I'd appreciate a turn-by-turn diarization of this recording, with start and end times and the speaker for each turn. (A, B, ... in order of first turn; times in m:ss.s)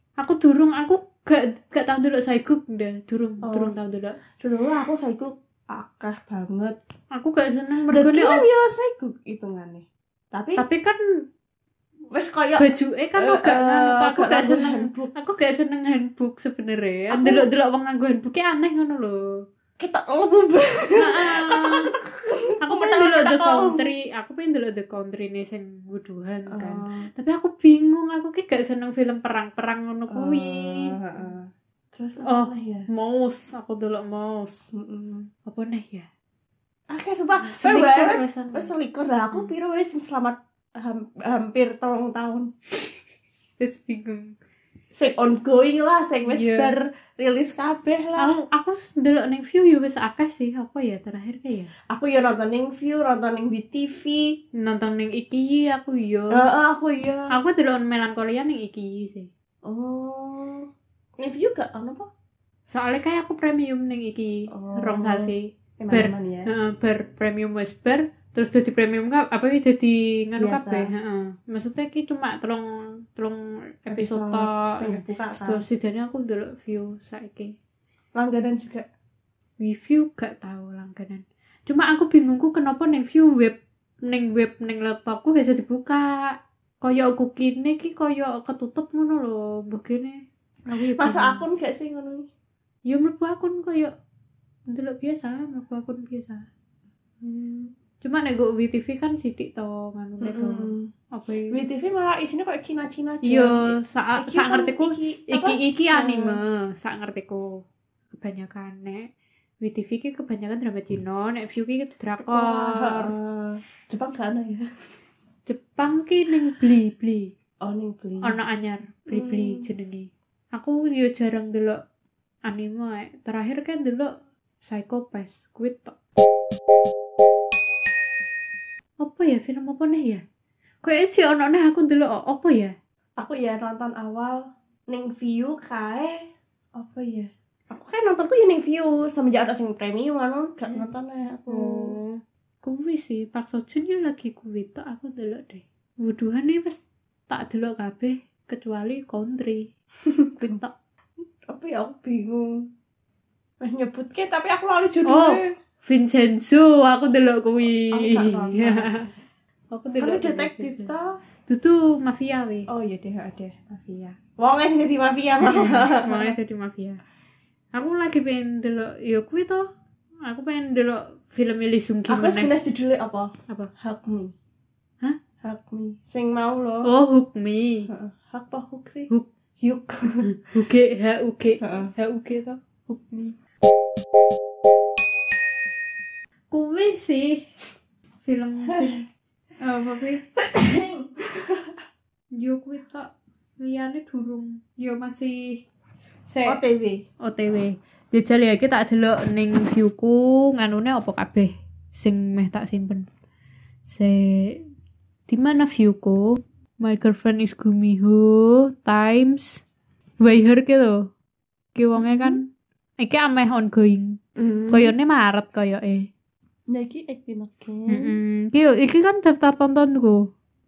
0:00.2-0:04.2 A
0:03.4-0:03.7 B
0:04.4-0:06.8 B
0:07.1-0:08.4 A
0:07.9-0:10.6 B
0:10.6-0:11.0 A
0:12.1-0:15.1 B
0:12.6-0:19.4 A
0:17.1-0:17.5 B
0:19.8-0:23.8 B
0:21.0-0:21.9 A
0:22.6-0:31.0 A
0:26.5-0:27.1 B
0:30.1-0:32.9 B
0:32.2-0:34.7 A
0:34.7-0:35.3 B
0:35.4-0:36.1 A
0:36.9-0:42.5 B
0:37.4-0:38.7 A
0:43.6-0:44.4 A
0:44.9-0:48.3 B
0:46.3-0:46.7 A
0:48.2-0:51.7 A
0:51.9-0:54.4 B
0:54.5-0:56.4 A
0:56.3-0:57.3 B
0:57.3-0:59.3 A
0:59.6-1:02.1 B
1:02.7-1:17.5 A
1:04.5-1:06.5 B
1:10.4-1:10.9 B
1:13.9-1:15.6 B
1:18.1-1:18.9 B
1:19.6-1:31.4 A
1:31.0-1:32.3 B
1:32.9-1:33.9 A
1:34.7-1:36.5 A
1:37.2-1:37.7 B
1:38.0-1:41.5 A
1:40.2-1:40.9 B
1:41.5-1:46.4 B
1:43.2-1:47.6 A
1:48.1-1:49.1 A
1:49.6-1:53.1 A
1:52.2-1:54.6 B
1:55.5-1:57.3 A
1:57.6-1:58.4 B
1:58.2-2:01.8 A
1:59.1-1:59.7 B
2:02.5-2:04.1 A
2:04.6-2:05.9 A
2:09.0-2:10.2 A
2:10.8-2:12.7 A
2:13.2-2:22.0 B
2:21.5-2:29.7 A
2:30.0-2:30.6 B
2:30.4-2:30.7 A
2:31.4-2:32.6 B
2:33.6-2:35.5 B
2:35.0-2:39.1 A
2:37.7-2:39.0 B
2:39.7-2:40.9 A
2:40.0-2:41.1 B
2:41.5-2:42.7 A
2:42.7-2:46.3 B
2:45.4-2:47.0 A
2:47.7-2:49.7 A
2:50.2-2:52.5 A
2:52.1-2:54.3 B
2:55.4-2:56.9 B
2:56.8-2:57.9 A
2:57.9-3:00.2 B
3:00.2-3:03.3 A
3:01.6-3:01.9 B
3:06.5-3:07.5 A
3:08.2-3:09.1 A
3:09.6-3:10.2 A
3:10.4-3:11.7 B
3:12.3-3:15.6 A
3:16.3-3:16.6 A
3:16.4-3:17.0 B
3:17.2-3:23.0 A
3:23.8-3:24.6 A
3:25.3-3:29.6 A
3:30.2-3:31.1 A
3:31.7-3:32.4 A
3:31.9-3:32.4 B
3:33.0-3:36.1 A
3:34.4-3:34.9 B
3:36.7-3:38.1 B
3:37.9-3:40.3 A